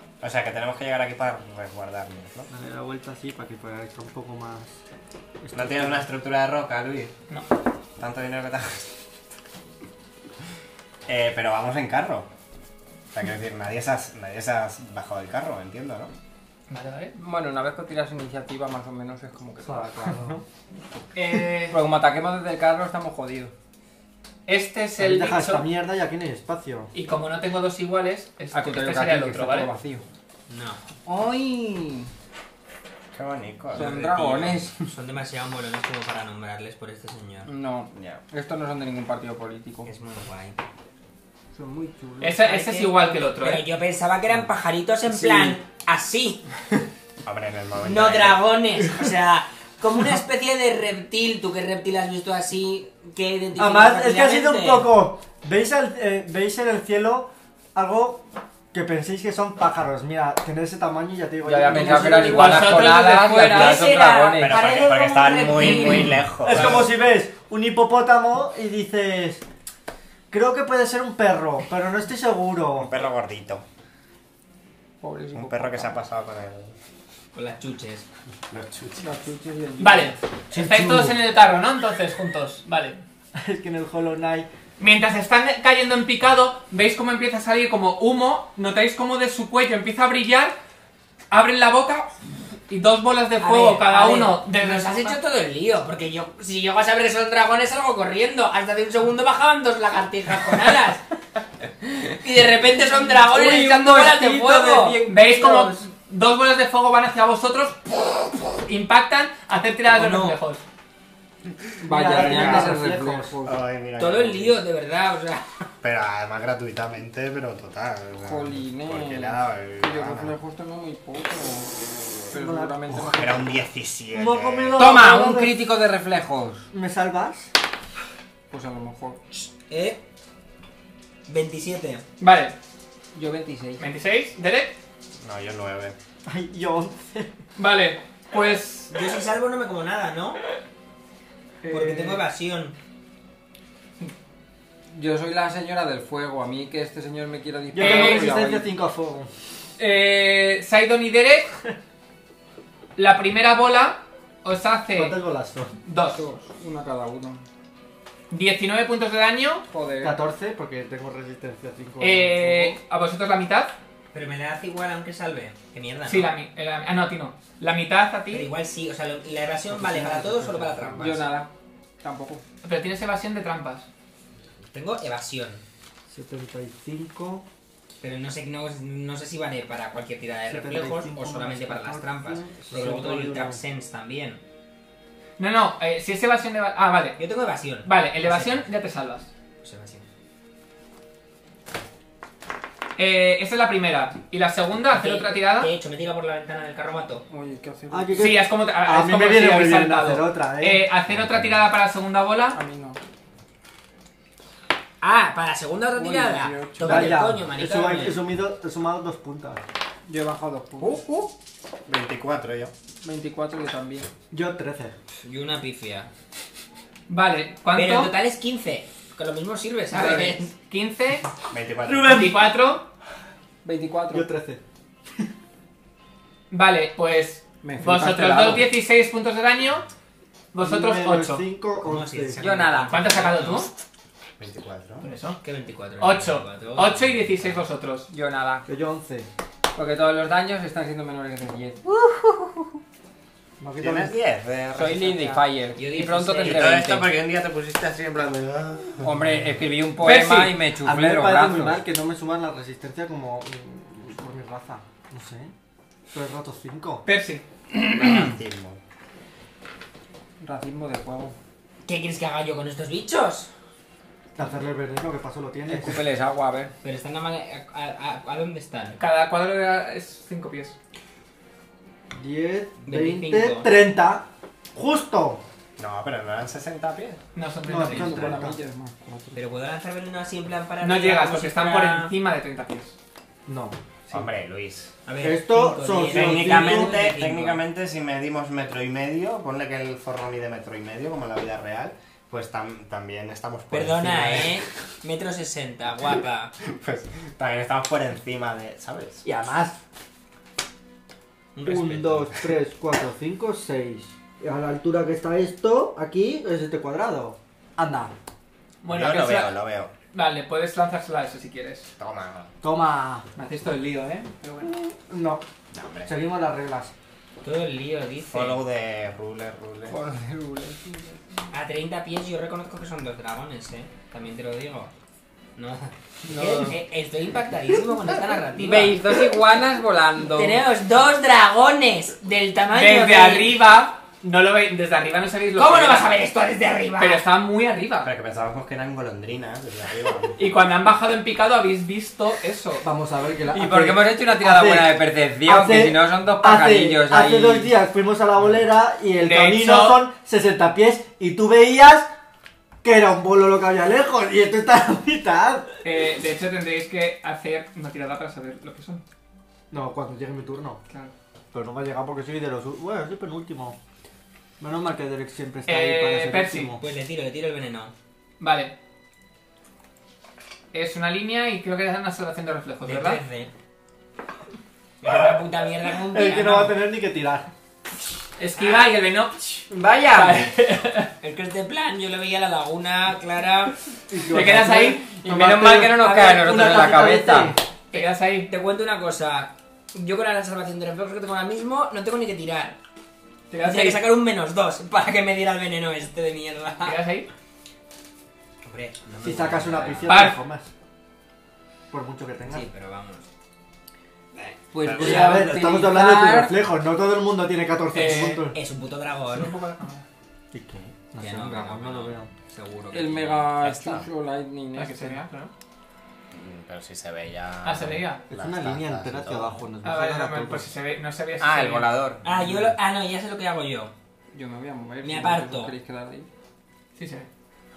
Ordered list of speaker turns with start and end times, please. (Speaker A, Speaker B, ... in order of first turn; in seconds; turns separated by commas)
Speaker A: 0.2-2.5, Speaker B: 2.5-4.8, Speaker B: 5.4-6.0, Speaker A: 5.5-7.1, Speaker A: 8.0-9.0, Speaker A: 11.1-12.3, Speaker A: 13.1-16.1, Speaker C: 16.7-17.1, Speaker D: 17.2-20.2, Speaker B: 19.6-20.4, Speaker C: 21.1-21.8, Speaker D: 21.7-23.5, Speaker C: 24.5-25.7, Speaker B: 25.0-26.9, Speaker C: 26.9-29.7, Speaker D: 28.5-30.0, Speaker E: 30.5-30.8, Speaker D: 31.1-32.1, Speaker A: 33.1-34.6, Speaker D: 33.7-34.9, Speaker E: 34.8-37.5, Speaker D: 37.5-39.9, Speaker A: 37.9-38.2, Speaker E: 39.9-40.6, Speaker D: 41.5-42.4, Speaker C: 42.2-43.7, Speaker E: 42.4-46.4, Speaker D: 45.2-45.5, Speaker A: 47.2-48.5, Speaker E: 47.8-54.9, Speaker B: 53.6-62.8, Speaker D: 61.4-64.6, Speaker E: 61.7-66.8, Speaker C: 62.1-63.9, Speaker A: 64.4-67.0, Speaker B: 66.4-69.4, Speaker B: 70.3-72.9, Speaker A: 72.8-73.6, Speaker D: 75.0-76.0, Speaker A: 75.3-76.8, Speaker E: 77.3-78.1, Speaker A: 78.5-79.1, Speaker D: 79.0-80.2, Speaker C: 79.8-83.0, Speaker B: 80.5-81.2, Speaker B: 83.4-84.5, Speaker C: 84.8-90.5, Speaker C: 91.3-92.1, Speaker C: 92.7-95.2, Speaker E: 93.4-101.0, Speaker E: 101.8-105.0, Speaker D: 103.3-105.8, Speaker C: 105.1-110.6, Speaker E: 109.9-110.4, Speaker D: 111.8-113.6, Speaker B: 111.9-113.3, Speaker A: 112.1-112.8, Speaker A: 113.5-114.6, Speaker E: 114.0-115.5, Speaker A: 115.8-120.3, Speaker D: 118.2-123.5, Speaker B: 122.3-123.4, Speaker A: 122.9-125.0, Speaker B: 124.1-125.6, Speaker D: 124.8-126.7, Speaker B: 126.7-127.5, Speaker D: 128.5-129.2, Speaker E: 129.3-130.0, Speaker E: 131.3-132.1, Speaker C: 132.2-132.6, Speaker D: 133.1-133.8, Speaker C: 133.8-134.8, Speaker A: 135.2-136.0, Speaker B: 136.3-137.3, Speaker C: 137.6-138.9, Speaker E: 138.9-140.4, Speaker E: 141.7-142.8, Speaker D: 144.9-148.7, Speaker B: 147.7-149.3, Speaker C: 147.8-148.4, Speaker C: 149.8-151.5, Speaker C: 153.0-155.2, Speaker B: 154.9-155.8, Speaker C: 155.8-156.2, Speaker D: 156.1-157.4, Speaker C: 158.3-159.6, Speaker D: 159.7-160.2, Speaker B: 160.0-162.8, Speaker C: 162.0-163.8, Speaker E: 164.1-166.3, Speaker C: 166.1-168.5, Speaker E: 168.3-171.3, Speaker B: 169.7-171.1, Speaker D: 171.0-172.4, Speaker C: 172.6-173.9, Speaker E: 174.7-175.6, Speaker B: 176.1-177.4, Speaker E: 178.0-184.4, Speaker B: 180.5-183.6, Speaker C: 185.4-187.2, Speaker E: 187.2-188.7, Speaker C: 187.8-189.3, Speaker E: 189.6-190.1, Speaker C: 193.0-195.7, Speaker E: 194.9-197.2, Speaker D: 197.3-198.4, Speaker B: 197.9-200.9, Speaker C: 198.2-202.6, Speaker A: 201.1-201.6, Speaker D: 202.5-203.0, Speaker E: 205.0-208.2, Speaker D: 205.9-207.2, Speaker B: 206.8-209.6, Speaker D: 210.1-211.3, Speaker A: 211.9-212.7, Speaker D: 213.0-214.1, Speaker B: 214.3-215.0, Speaker E: 215.2-216.1, Speaker C: 217.1-218.1, Speaker E: 217.7-220.5, Speaker C: 219.9-221.3, Speaker A: 221.5-222.3, Speaker B: 221.9-222.5, Speaker C: 222.0-222.9, Speaker D: 223.6-224.3, Speaker B: 224.1-224.6, Speaker C: 226.5-229.9, Speaker D: 227.6-228.7, Speaker C: 230.5-231.5, Speaker B: 230.6-232.4, Speaker E: 231.8-233.7, Speaker D: 232.4-233.1, Speaker C: 232.9-233.7, Speaker A: 234.4-235.1, Speaker C: 235.0-235.4, Speaker E: 235.4-237.2, Speaker C: 236.0-238.1, Speaker D: 238.1-238.7, Speaker B: 238.7-239.3, Speaker D: 239.7-242.7, Speaker B: 243.6-244.1, Speaker A: 243.8-245.4, Speaker D: 244.7-247.1, Speaker E: 245.8-246.9, Speaker A: 246.4-249.5, Speaker D: 249.0-251.8, Speaker C: 250.0-250.6, Speaker B: 250.8-255.5, Speaker B: 256.1-257.1, Speaker C: 257.1-257.4, Speaker A: 257.8-258.8, Speaker D: 257.8-258.2, Speaker D: 260.4-261.4, Speaker E: 261.9-263.5, Speaker B: 264.4-266.0, Speaker D: 265.7-266.7, Speaker E: 266.8-269.0, Speaker C: 269.0-270.8, Speaker B: 272.1-275.4, Speaker E: 272.9-273.7, Speaker A: 275.8-277.2, Speaker C: 277.4-278.4, Speaker B: 277.7-278.6, Speaker D: 277.8-279.4, Speaker E: 279.4-282.1, Speaker C: 280.8-282.9, Speaker B: 283.5-284.3, Speaker A: 284.1-284.9, Speaker E: 285.1-287.6, Speaker B: 285.2-287.0, Speaker A: 286.1-294.6, Speaker E: 293.7-296.5, Speaker A: 296.6-299.2, Speaker B: 299.2-299.8, Speaker E: 301.6-302.3, Speaker B: 301.6-308.1, Speaker C: 308.8-309.5, Speaker A: 308.9-309.9, Speaker C: 310.1-311.9, Speaker A: 312.0-312.5, Speaker B: 312.6-313.3, Speaker C: 313.4-314.8, Speaker B: 314.7-315.4, Speaker A: 315.7-316.1, Speaker B: 316.1-316.9, Speaker E: 317.4-318.6, Speaker A: 318.3-320.0, Speaker D: 319.9-321.5, Speaker E: 321.5-324.9, Speaker E: 325.6-329.0, Speaker D: 326.3-326.8, Speaker D: 328.6-330.6, Speaker E: 330.3-333.6, Speaker C: 332.7-336.1, Speaker E: 335.6-337.2, Speaker C: 337.0-338.1, Speaker A: 338.0-340.4, Speaker C: 340.4-342.9, Speaker B: 342.8-352.1, Speaker D: 343.5-347.7, Speaker C: 349.1-350.1, Speaker B: 352.8-355.7, Speaker C: 355.8-359.0, Speaker B: 359.7-360.8, Speaker B: 361.5-363.8, Speaker B: 364.6-366.8, Speaker C: 365.7-366.7, Speaker E: 366.8-367.9, Speaker C: 368.4-368.8, Speaker C: 370.7-373.2, Speaker E: 372.8-373.5, Speaker E: 375.0-376.8, Speaker B: 376.1-377.5, Speaker C: 378.4-381.1, Speaker E: 378.6-378.9, Speaker D: 379.7-380.5, Speaker E: 381.2-383.8, Speaker B: 384.1-387.6, Speaker C: 384.3-385.3, Speaker D: 385.2-387.6, Speaker C: 387.9-388.5, Speaker E: 387.9-392.8, Speaker C: 393.5-394.0, Speaker E: 393.6-397.0, Speaker C: 396.8-397.3, Speaker E: 398.6-400.1, Speaker B: 399.2-400.7, Speaker C: 400.1-400.4, Speaker B: 401.9-402.7, Speaker E: 402.4-403.3, Speaker D: 404.7-406.6, Speaker A: 404.8-405.3, Speaker B: 404.9-408.6, Speaker C: 407.9-408.5, Speaker E: 407.9-409.6, Speaker C: 409.3-410.1, Speaker B: 410.5-412.3, Speaker E: 411.2-413.6, Speaker D: 412.9-415.2, Speaker A: 413.6-414.1, Speaker C: 414.8-415.5, Speaker A: 416.3-419.6, Speaker C: 417.6-418.3, Speaker B: 418.3-420.7, Speaker C: 419.8-421.9, Speaker A: 421.4-422.7, Speaker E: 422.2-423.9, Speaker D: 424.3-426.3, Speaker E: 425.0-425.7, Speaker C: 427.0-427.3